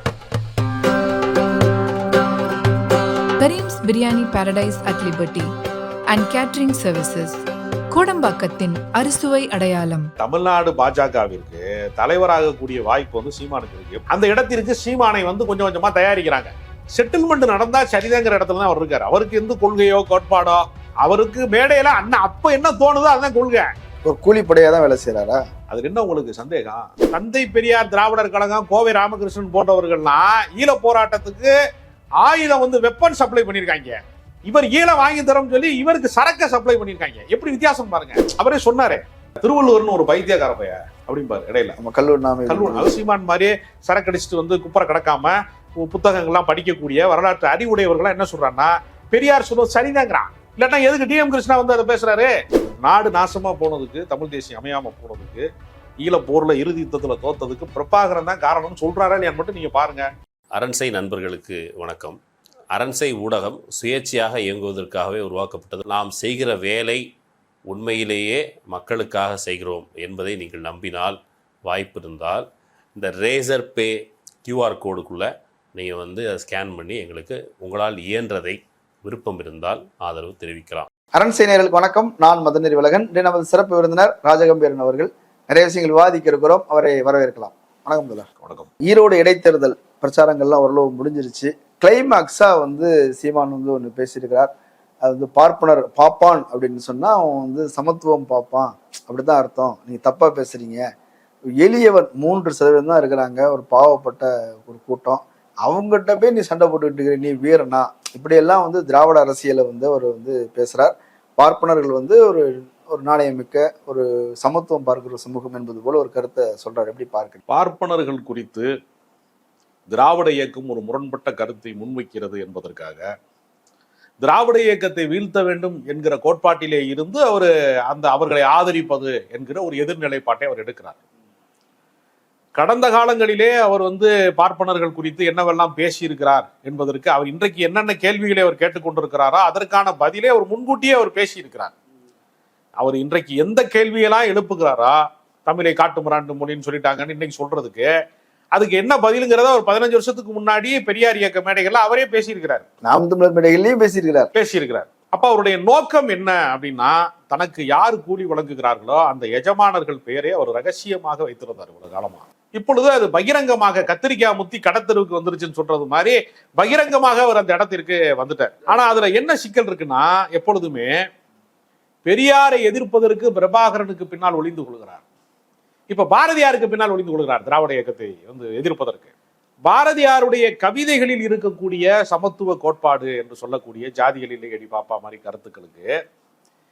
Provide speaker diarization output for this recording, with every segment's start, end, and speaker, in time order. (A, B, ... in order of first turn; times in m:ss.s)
0:03.4-0:05.5 A
0:06.1-0:10.1 A
0:10.2-0:23.7 B
0:24.0-0:25.4 C
0:25.7-0:31.5 B
0:32.2-0:41.8 B
0:41.8-0:42.9 C
0:42.5-0:55.5 B
0:56.0-1:00.1 B
1:00.5-1:02.2 D
1:02.7-1:07.0 D
1:07.7-1:20.9 D
1:21.1-1:28.2 C
1:28.4-1:28.7 B
1:28.8-1:34.5 C
1:35.0-1:40.8 C
1:41.6-1:57.4 C
1:57.5-1:58.7 B
1:59.9-2:03.1 B
2:04.2-2:11.0 B
2:12.6-2:21.7 B
2:22.8-2:27.9 B
2:28.5-2:32.6 B
2:32.8-2:34.3 C
2:34.3-2:51.0 B
2:52.0-2:55.0 B
2:55.9-2:59.1 B
2:59.6-3:05.9 B